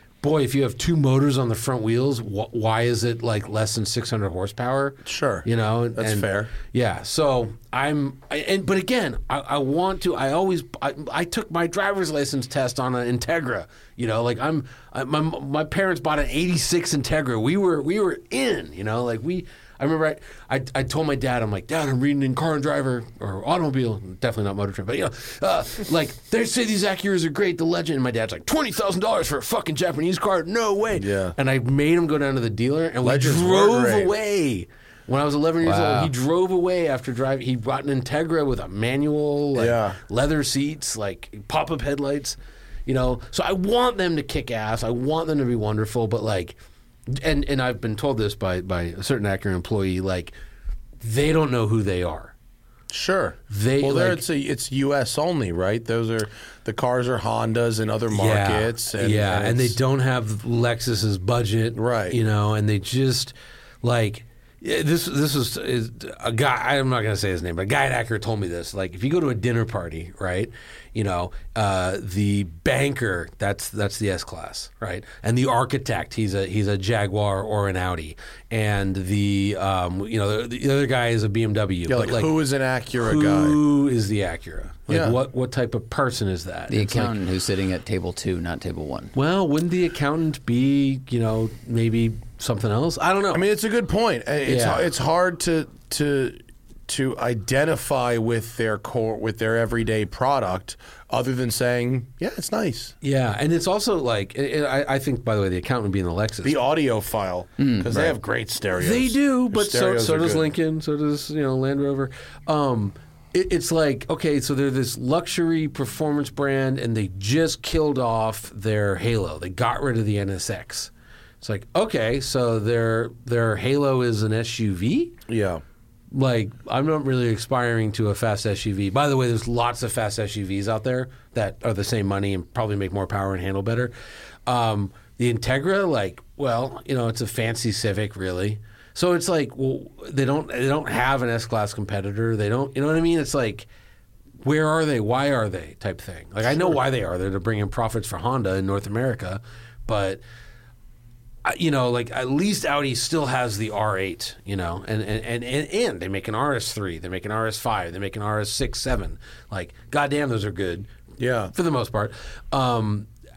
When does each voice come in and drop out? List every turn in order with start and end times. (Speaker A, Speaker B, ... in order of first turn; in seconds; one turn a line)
Speaker A: 0.2-46.5
Speaker B: 5.0-6.5
Speaker B: 30.9-31.4
Speaker B: 33.0-34.1
Speaker C: 35.6-36.1
Speaker B: 39.5-40.0
Speaker A: 47.1-50.3
Speaker A: 51.0-52.3
Speaker B: 52.9-59.8
Speaker A: 53.5-54.2
Speaker A: 58.1-82.3
Speaker B: 61.8-62.2
Speaker B: 81.9-83.6
Speaker A: 83.0-87.1
Speaker B: 84.9-85.2
Speaker C: 86.7-89.1
Speaker A: 89.1-93.4
Speaker B: 93.3-102.9
Speaker A: 94.5-94.9
Speaker A: 103.0-106.6
Speaker B: 106.4-110.5
Speaker C: 107.6-108.1
Speaker A: 108.8-125.2
Speaker B: 125.3-125.6
Speaker A: 126.1-133.9
Speaker A: 134.5-143.7
Speaker A: 144.4-150.2
Speaker A: 151.4-160.9
Speaker B: 161.2-161.5
Speaker A: 161.5-163.1